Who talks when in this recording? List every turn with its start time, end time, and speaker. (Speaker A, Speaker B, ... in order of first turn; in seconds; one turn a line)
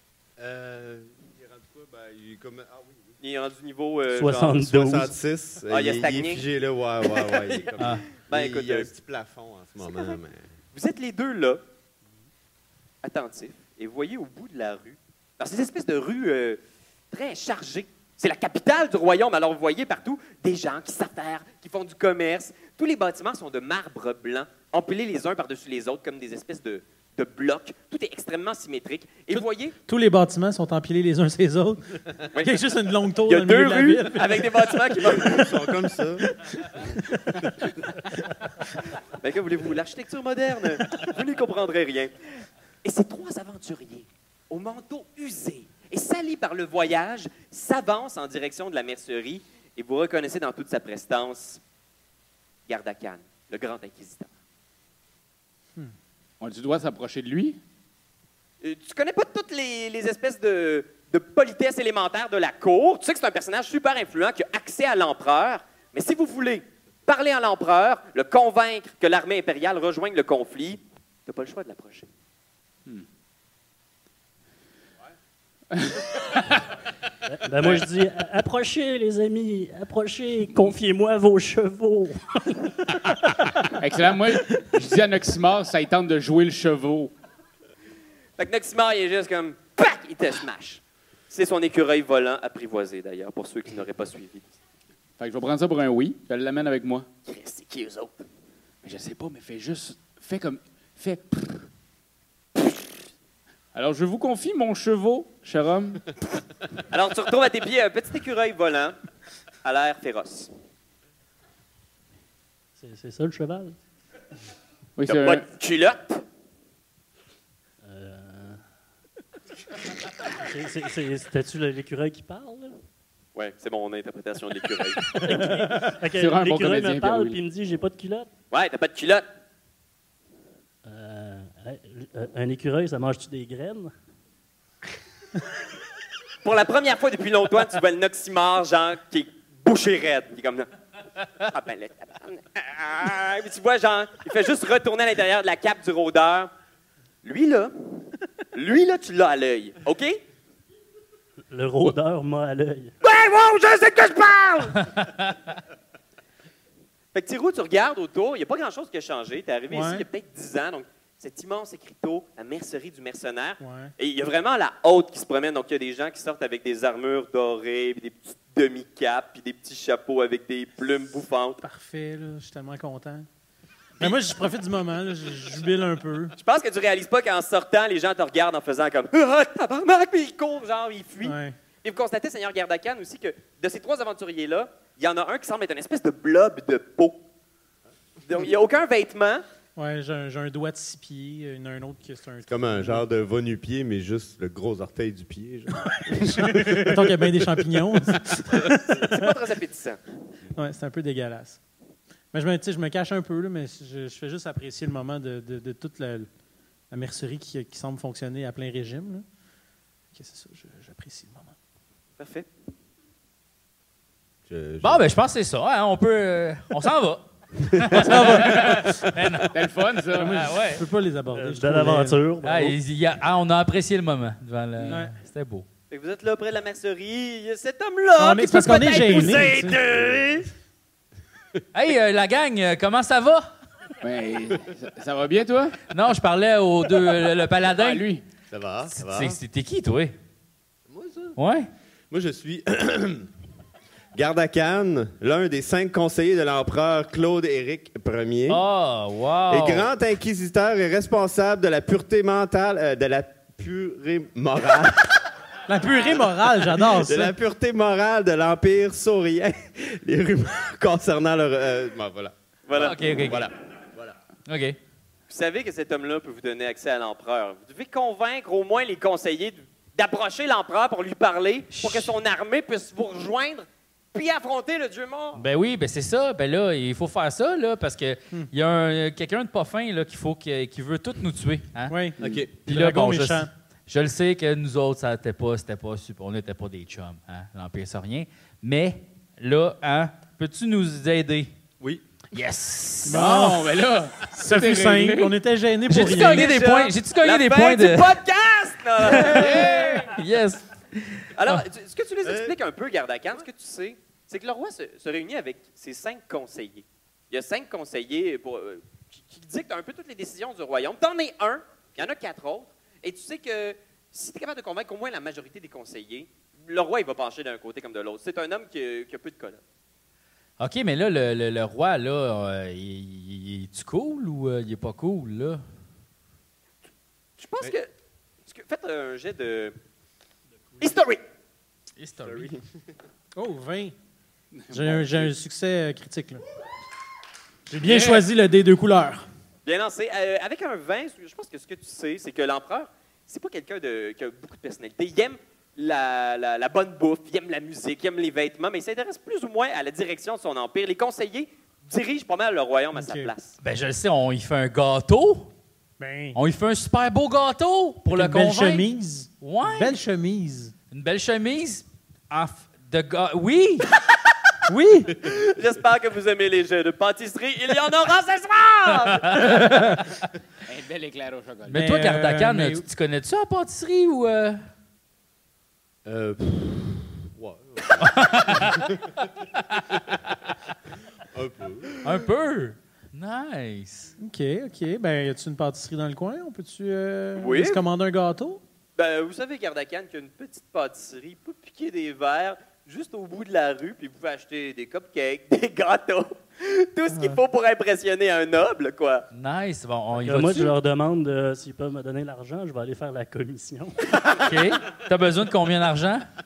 Speaker A: 0.4-3.1
Speaker B: 3.2-4.7
Speaker C: 4.1-5.1
Speaker A: 4.5-10.5
Speaker B: 5.7-6.4
Speaker B: 7.0-8.9
Speaker D: 7.8-8.1
Speaker B: 9.8-10.2
Speaker B: 10.7-11.6
Speaker B: 13.0-16.6
Speaker B: 17.1-29.8
Speaker E: 29.3-34.8
Speaker B: 32.3-32.6
Speaker B: 33.3-35.7
Speaker A: 35.1-36.3
Speaker E: 36.8-37.4
Speaker B: 39.2-42.1
Speaker B: 42.8-51.6
Speaker B: 52.7-54.3
Speaker F: 56.4-57.6
Speaker B: 58.6-72.1
Speaker F: 75.7-76.6
Speaker C: 77.3-83.1
Speaker F: 83.8-87.1
Speaker B: 88.4-94.5
Speaker F: 95.2-97.1
Speaker B: 97.3-98.2
Speaker F: 98.8-101.7
Speaker F: 103.7-106.0
Speaker B: 106.9-109.0
Speaker B: 109.6-110.5
Speaker C: 112.8-113.8
Speaker F: 115.0-115.5
Speaker B: 115.0-116.2
Speaker C: 117.8-118.6
Speaker C: 120.2-122.8
Speaker B: 123.3-125.3
Speaker C: 125.1-128.3
Speaker F: 126.1-127.4
Speaker B: 128.5-129.3
Speaker C: 130.9-133.9
Speaker B: 136.4-140.7
Speaker B: 141.4-146.5
Speaker B: 147.2-150.2
Speaker C: 151.5-152.9
Speaker B: 153.0-154.9
Speaker D: 154.8-155.2
Speaker B: 157.1-171.6
Speaker E: 159.7-160.1
Speaker E: 163.6-163.9
Speaker E: 171.6-173.3
Speaker E: 174.0-176.3
Speaker B: 176.4-187.2
Speaker E: 181.2-181.6
Speaker B: 188.2-189.4
Speaker E: 189.8-193.1
Speaker A: 192.5-197.1
Speaker E: 196.2-199.4
Speaker B: 198.9-200.0
Speaker E: 200.6-201.6
Speaker E: 202.3-206.3
Speaker E: 206.9-209.2
Speaker E: 210.1-211.6
Speaker B: 212.2-212.5
Speaker A: 214.5-215.1
Speaker D: 214.8-219.6
Speaker A: 217.8-218.1
Speaker E: 218.0-219.0
Speaker F: 218.1-218.9
Speaker F: 219.5-220.4
Speaker E: 220.2-222.2
Speaker D: 220.3-220.8
Speaker C: 221.3-222.8
Speaker D: 222.4-225.7
Speaker E: 224.9-225.2
Speaker B: 225.9-229.5
Speaker E: 228.2-229.8
Speaker D: 229.0-230.5
Speaker D: 231.7-233.5
Speaker F: 234.0-235.8
Speaker D: 235.9-238.1
Speaker F: 237.7-238.2
Speaker A: 238.5-239.4
Speaker D: 238.9-240.2
Speaker A: 240.9-241.4
Speaker D: 241.4-241.7
Speaker A: 242.1-243.3
Speaker A: 244.1-248.7
Speaker D: 248.5-249.9
Speaker A: 249.5-255.2
Speaker E: 255.7-257.3
Speaker A: 256.7-264.2
Speaker B: 262.7-263.0
Speaker D: 262.8-263.5
Speaker D: 264.5-264.8
Speaker B: 265.3-275.4
Speaker D: 271.7-272.1
Speaker D: 275.4-282.0
Speaker E: 281.9-283.5
Speaker A: 282.2-282.5
Speaker D: 282.6-291.5
Speaker D: 292.3-293.4
Speaker E: 293.1-293.8
Speaker F: 293.1-295.4
Speaker E: 294.3-296.7
Speaker D: 295.9-298.1
Speaker B: 296.3-300.1
Speaker D: 299.0-301.6
Speaker F: 299.3-300.1
Speaker B: 301.4-319.6
Speaker A: 302.2-302.6
Speaker D: 320.6-325.6
Speaker B: 327.4-327.9
Speaker B: 328.5-329.8
Speaker B: 330.8-331.2
Speaker D: 332.0-332.5
Speaker A: 332.2-332.7
Speaker E: 333.4-333.9
Speaker F: 334.6-335.3
Speaker E: 334.7-336.4
Speaker E: 337.7-339.3
Speaker F: 337.8-338.3
Speaker B: 339.6-353.6
Speaker E: 352.9-353.3
Speaker D: 353.6-355.5
Speaker E: 356.0-356.4
Speaker D: 356.4-358.9
Speaker E: 358.1-360.7
Speaker D: 359.4-360.0
Speaker D: 360.9-363.9
Speaker E: 364.7-365.2
Speaker B: 365.2-369.4
Speaker D: 369.0-370.1
Speaker F: 370.7-371.8
Speaker D: 371.7-374.6
Speaker E: 371.7-372.9
Speaker A: 376.1-379.1
Speaker D: 378.0-378.9
Speaker A: 381.3-381.9
Speaker D: 382.0-384.1
Speaker E: 384.2-388.6
Speaker B: 387.4-387.8
Speaker B: 389.0-399.3
Speaker D: 399.3-400.7
Speaker C: 400.2-404.1
Speaker D: 404.3-406.3